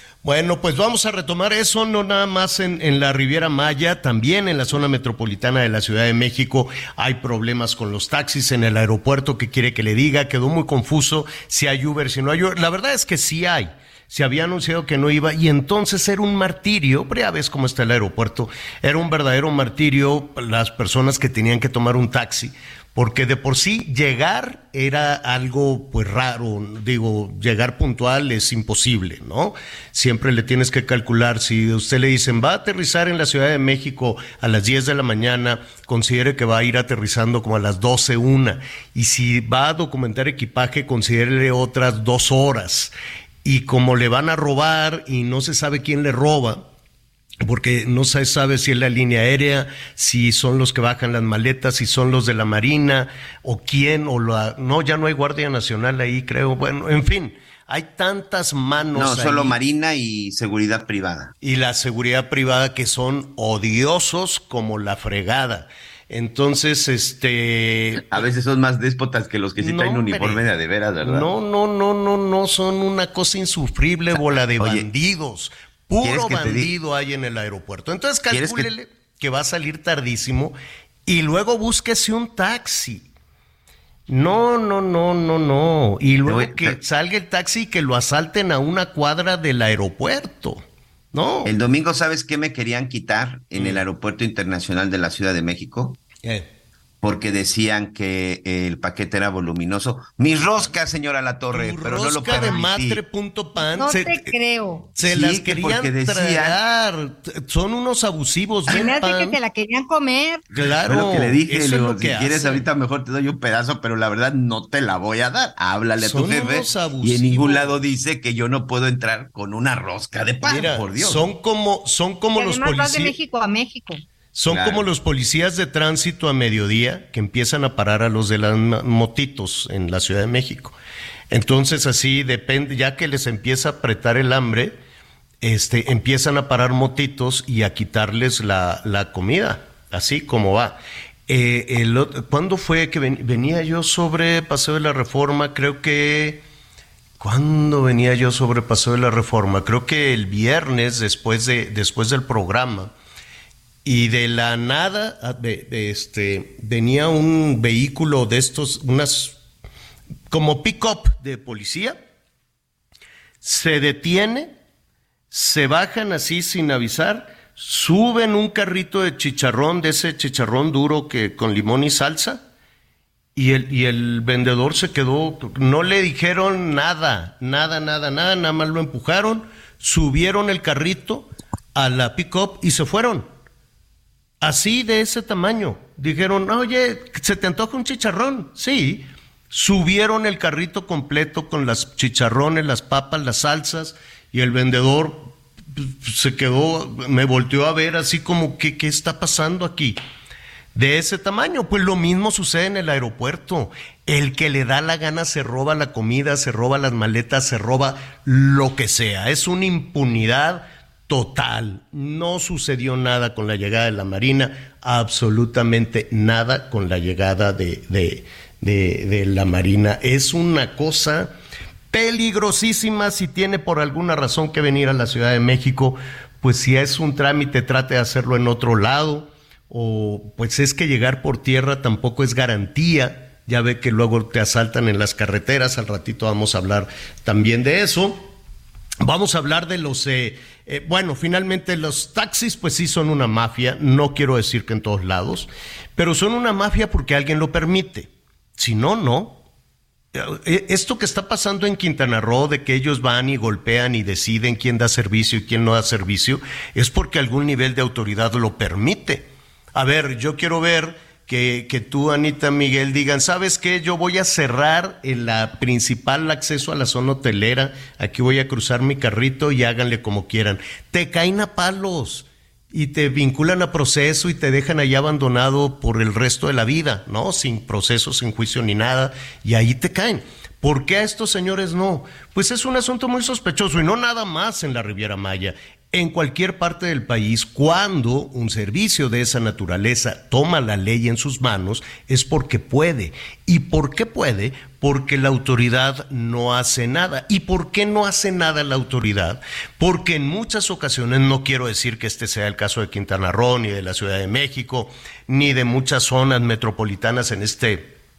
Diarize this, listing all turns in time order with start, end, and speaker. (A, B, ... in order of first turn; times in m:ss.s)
0:00.2-0:42.9 A
0:43.4-0:46.7 A
0:47.4-0:59.6 A
0:59.0-1:01.3 B
1:01.4-1:08.3 A
1:08.1-1:11.3 B
1:09.6-1:10.4 A
1:11.0-1:23.1 A
1:14.1-1:14.9 B
1:16.0-1:16.7 B
1:18.3-1:18.7 B
1:24.1-1:31.5 A
1:26.2-1:26.8 B
1:31.4-1:36.0 B
1:33.6-1:33.8 A
1:36.2-1:36.5 A
1:37.0-1:43.0 B
1:41.5-1:44.3 A
1:43.7-1:44.9 C
1:45.0-1:49.4 A
1:45.0-1:46.6 B
1:48.7-1:50.4 C
1:50.5-1:52.6 A
1:50.6-2:01.3 B
1:56.0-1:57.8 A
2:00.4-2:03.2 A
2:02.4-2:04.0 C
2:04.3-2:10.8 A
2:04.5-2:04.8 B
2:11.3-2:14.8 A
2:15.4-2:26.4 A
2:27.2-2:32.9 A
2:33.8-2:39.4 A
2:40.3-2:42.0 A
2:43.4-2:44.5 A
2:45.3-2:52.4 A
2:53.4-3:03.3 A
3:04.4-3:20.0 A
3:20.7-3:41.4 A
3:41.9-3:58.3 A
3:59.0-4:09.4 A
4:10.1-5:07.9 A